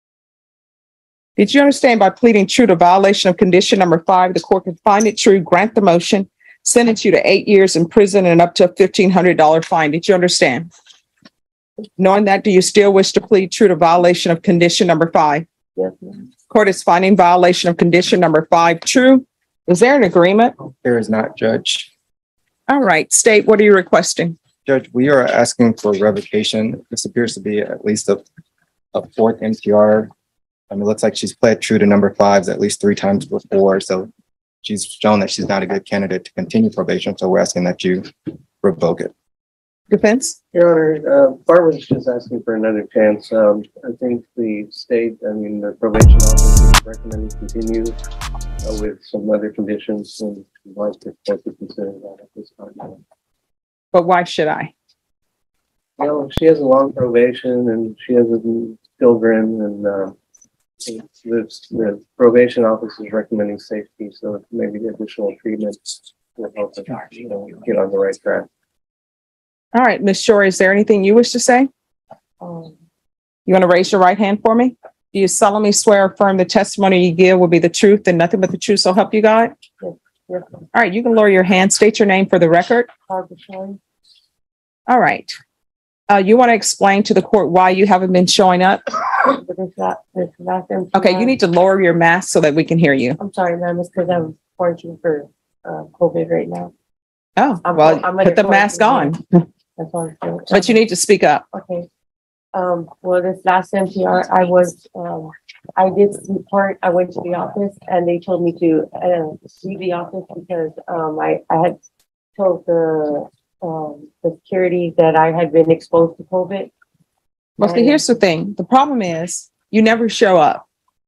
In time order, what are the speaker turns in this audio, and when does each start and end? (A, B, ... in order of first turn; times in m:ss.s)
0:01.4-0:10.7 A
0:12.0-0:15.4 A
0:15.8-0:16.2 B
0:16.5-0:20.5 A
0:20.8-0:21.9 C
0:22.7-0:24.4 A
0:24.6-0:28.2 C
0:28.9-0:30.1 C
0:30.7-0:34.1 C
0:34.6-0:39.1 C
0:39.9-0:40.4 A
0:40.5-0:48.0 D
0:48.6-0:53.0 D
0:53.9-0:54.7 A
0:56.0-1:00.2 D
1:00.9-1:08.5 D
1:09.7-1:11.7 A
1:12.4-1:12.8 B
1:13.5-1:19.5 A
1:19.8-1:20.6 B
1:20.7-1:22.9 A
1:23.1-1:23.8 B
1:24.9-1:25.3 A
1:26.1-1:28.8 A
1:29.4-1:31.3 B
1:31.0-1:33.2 A
1:33.2-1:36.7 B
1:37.4-1:39.2 A
1:37.6-1:39.2 B
1:39.8-1:40.8 B
1:40.5-1:41.4 A
1:41.5-1:41.9 B
1:42.5-1:51.8 B
1:52.4-1:56.7 B
1:57.6-2:00.6 A
1:57.6-1:58.0 B